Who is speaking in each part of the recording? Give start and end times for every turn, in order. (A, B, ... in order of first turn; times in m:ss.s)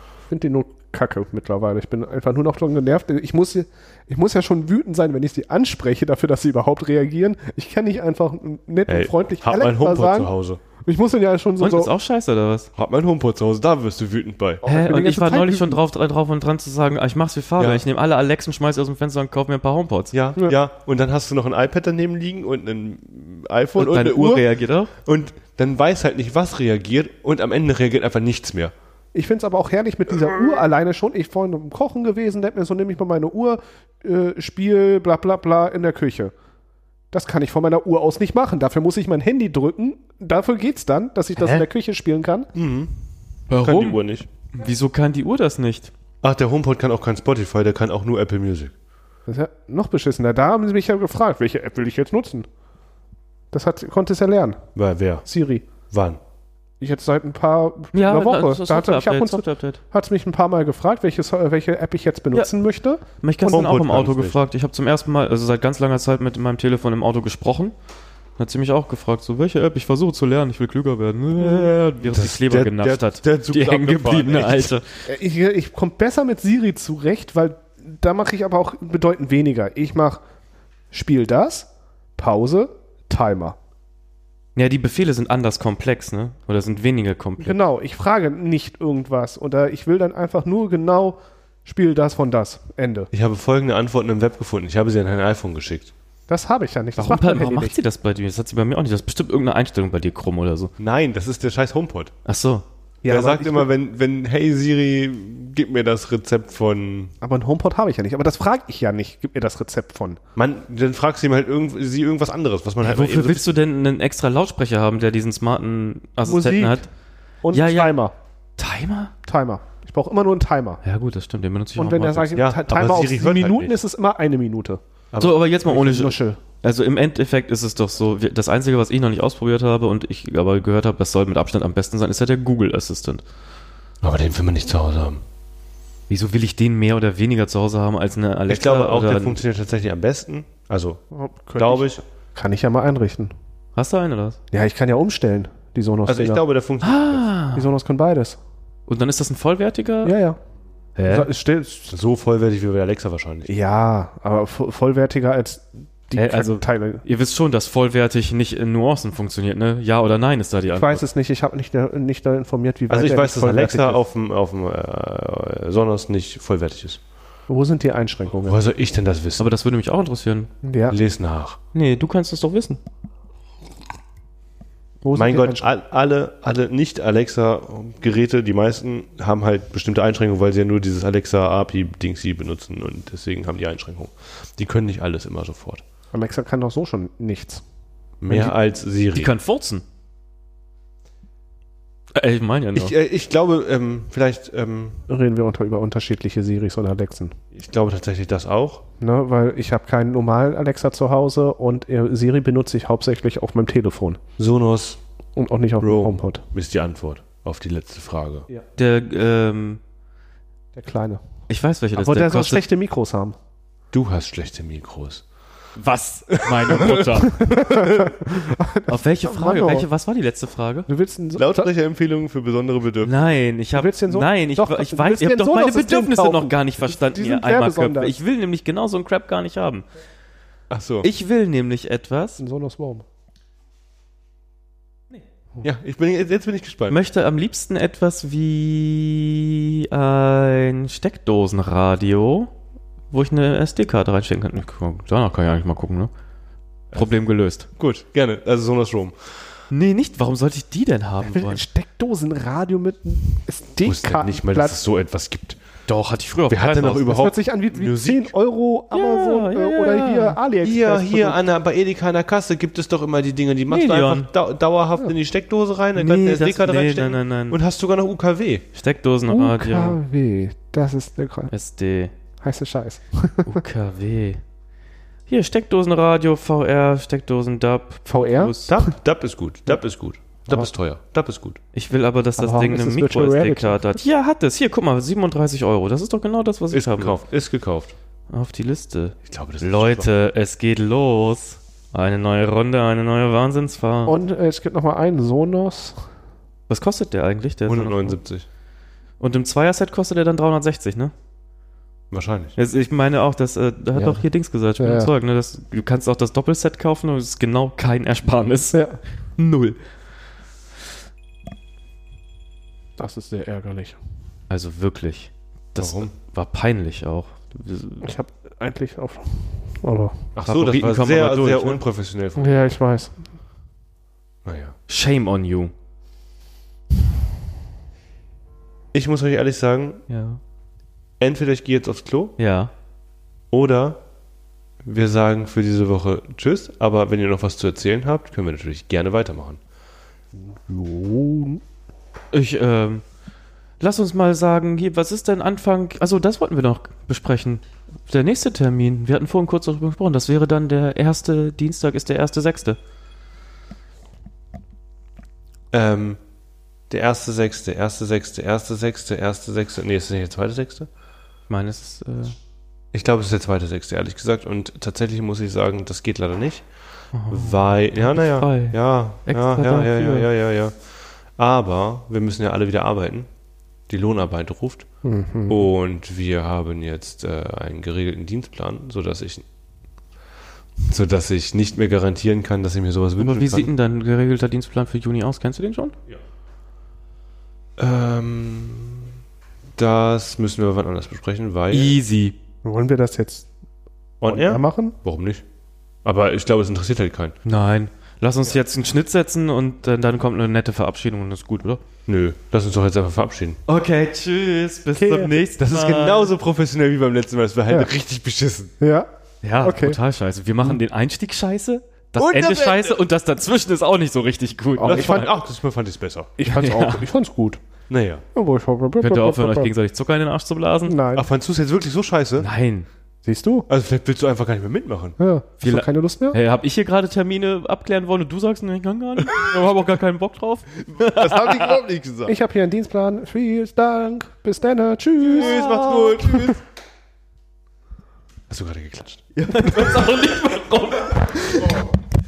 0:00.3-0:11.9 A
0:08.9-0:10.6 B
0:11.6-0:12.7 C
0:12.8-0:14.6 B
0:14.6-0:15.8 A
0:14.6-0:20.2 C
0:17.6-0:17.8 B
0:20.1-0:24.4 B
0:23.8-0:24.9 C
0:25.0-0:28.7 B
0:29.1-0:36.3 A
0:37.1-0:42.5 A
0:42.5-0:43.0 B
0:43.5-0:45.9 C
0:43.5-0:44.3 B
0:46.2-0:48.7 B
0:49.3-0:52.5 A
0:53.5-0:54.6 A
0:54.7-0:55.2 B
0:55.2-0:55.7 A
0:55.9-0:56.2 B
0:56.8-1:03.6 A
0:57.9-0:59.8 C
1:03.2-1:07.7 C
1:03.5-1:04.4 B
1:08.4-1:14.8 C
1:11.4-1:14.7 B
1:15.0-1:20.2 A
1:20.9-1:23.6 A
1:24.6-1:27.6 C
1:27.4-1:33.1 A
1:33.1-1:35.9 B
1:36.3-1:37.8 A
1:37.0-1:40.7 C
1:40.8-1:42.1 B
1:42.2-1:42.6 C
1:43.0-1:43.7 A
1:43.1-1:47.1 B
1:47.2-1:50.2 A
1:50.4-1:53.4 B
1:52.8-1:56.9 C
1:56.2-1:56.8 A
1:57.4-1:58.1 A
1:57.5-1:58.0 C
1:58.6-1:59.1 C
1:59.2-2:00.8 A
2:00.8-2:02.4 C
2:01.8-2:04.8 A
2:02.4-2:03.8 B
2:05.1-2:05.4 B
2:05.2-2:13.2 C
2:05.6-2:06.4 A
2:14.0-2:15.2 B
2:16.1-2:19.4 C
2:18.5-2:21.0 B
2:21.1-2:23.3 A
2:21.6-2:22.0 B
2:23.7-2:24.4 C
2:24.5-2:26.4 A
2:26.1-2:27.3 B
2:26.8-2:27.7 C
2:27.5-2:28.4 A
2:28.9-2:30.2 C
2:30.0-2:30.4 A
2:31.0-2:31.3 C
2:31.1-2:31.9 A
2:31.9-2:33.5 B
2:33.4-2:37.0 A
2:36.1-2:41.0 C
2:40.7-2:44.0 A
2:42.9-2:47.0 B
2:47.5-2:48.6 A
2:48.4-2:49.5 B
2:49.4-2:50.5 C
2:50.6-2:51.0 A
2:50.9-2:51.6 B
2:51.7-2:52.8 C
2:55.0-2:55.7 A
2:55.1-3:05.8 B
3:06.1-3:07.6 A
3:08.2-3:09.3 B
3:09.1-3:09.8 C
3:12.1-3:12.9 C
3:12.7-3:15.0 B
3:15.1-3:17.4 A
3:17.5-3:18.8 B
3:19.0-3:24.2 A
3:24.4-3:25.0 B
3:25.4-3:26.4 A
3:25.8-3:28.5 B
3:28.8-3:29.8 C
3:30.7-3:31.2 A
3:31.5-3:32.6 C
3:31.9-3:33.4 A
3:33.9-3:35.2 B
3:35.8-3:37.5 C
3:36.3-3:38.4 B
3:37.1-3:39.9 A
3:38.9-3:40.9 C
3:40.9-3:41.7 A
3:41.4-3:43.1 B
3:43.0-3:49.8 C
3:43.8-3:48.2 A
3:50.7-3:51.1 B
3:51.0-3:52.4 C
3:52.4-3:53.0 A
3:55.6-3:57.0 B
3:56.9-4:02.5 C
4:03.1-4:06.1 C
4:06.9-4:07.7 C
4:07.8-4:09.2 B
4:09.7-4:11.6 C
4:11.2-4:14.8 A
4:13.8-4:15.6 B
4:15.8-4:17.2 C
4:16.5-4:18.3 B
4:17.1-4:21.4 A
4:18.9-4:20.4 C
4:20.6-4:28.6 B
4:23.7-4:24.3 C
4:26.0-4:27.6 C
4:28.7-4:30.0 C
4:29.3-4:31.5 A
4:31.5-4:32.1 C
4:32.4-4:33.6 A
4:33.4-4:34.4 C
4:35.3-4:38.8 C
4:38.1-4:38.9 A
4:38.7-4:41.6 B
4:41.7-4:47.2 C
4:42.4-4:43.8 A
4:46.7-4:47.9 B
4:48.3-4:54.2 C
4:49.2-4:50.1 B
4:54.0-4:56.0 A
4:56.7-4:58.2 C
4:57.7-4:58.4 B
4:59.2-5:01.1 C
5:02.1-5:02.5 B
5:02.6-5:08.8 C
5:04.8-5:05.1 A
5:08.7-5:09.0 A
5:09.4-5:09.8 C
5:13.0-5:14.0 A
5:14.5-5:18.1 C
5:15.8-5:16.1 B
5:18.0-5:20.3 A
5:20.3-5:22.6 B
5:20.4-5:21.8 C
5:22.4-5:23.2 A
5:24.4-5:24.8 B
5:24.9-5:25.7 C
5:28.9-5:30.0 B
5:30.1-5:30.4 C
5:31.2-5:32.4 B
5:32.4-5:32.7 C
5:33.5-5:34.0 B
5:34.8-5:39.6 B
5:40.4-5:41.6 A
5:42.3-5:43.0 C
5:43.8-5:52.8 C
5:55.7-5:56.2 B
5:56.9-6:00.9 B
6:01.5-6:02.4 C
6:02.9-6:06.6 B
6:07.1-6:10.3 C
6:07.3-6:10.7 B
6:11.4-6:13.3 B
6:13.9-6:14.9 B
6:15.0-6:15.7 A
6:15.5-6:19.4 B
6:20.8-6:23.7 B
6:23.2-6:26.0 C
6:27.8-6:29.1 B
6:29.8-6:31.9 B
6:31.7-6:32.3 C
6:32.6-6:33.5 A
6:34.2-6:35.4 B
6:34.3-6:35.0 A
6:36.0-6:37.4 B
6:37.4-6:41.8 C
6:42.1-6:43.6 B
6:43.7-6:46.3 C
6:45.0-6:48.7 B
6:48.8-6:49.1 A
6:49.4-6:55.3 C
6:49.6-6:50.0 A
6:52.2-6:53.0 B
6:54.8-6:55.3 A
6:54.8-6:56.3 B
6:56.4-6:57.6 A
6:56.5-6:57.0 C
6:57.9-6:58.2 B
6:58.3-6:59.7 A
6:59.0-7:01.0 C
7:00.8-7:01.3 A
7:01.2-7:02.5 B
7:02.4-7:02.9 C
7:03.2-7:03.7 A
7:03.7-7:05.2 B
7:05.2-7:06.4 A
7:05.6-7:11.8 C
7:10.9-7:12.3 B
7:12.2-7:15.6 A
7:15.2-7:16.5 C
7:15.2-7:16.6 B
7:18.5-7:19.3 B
7:19.4-7:21.9 C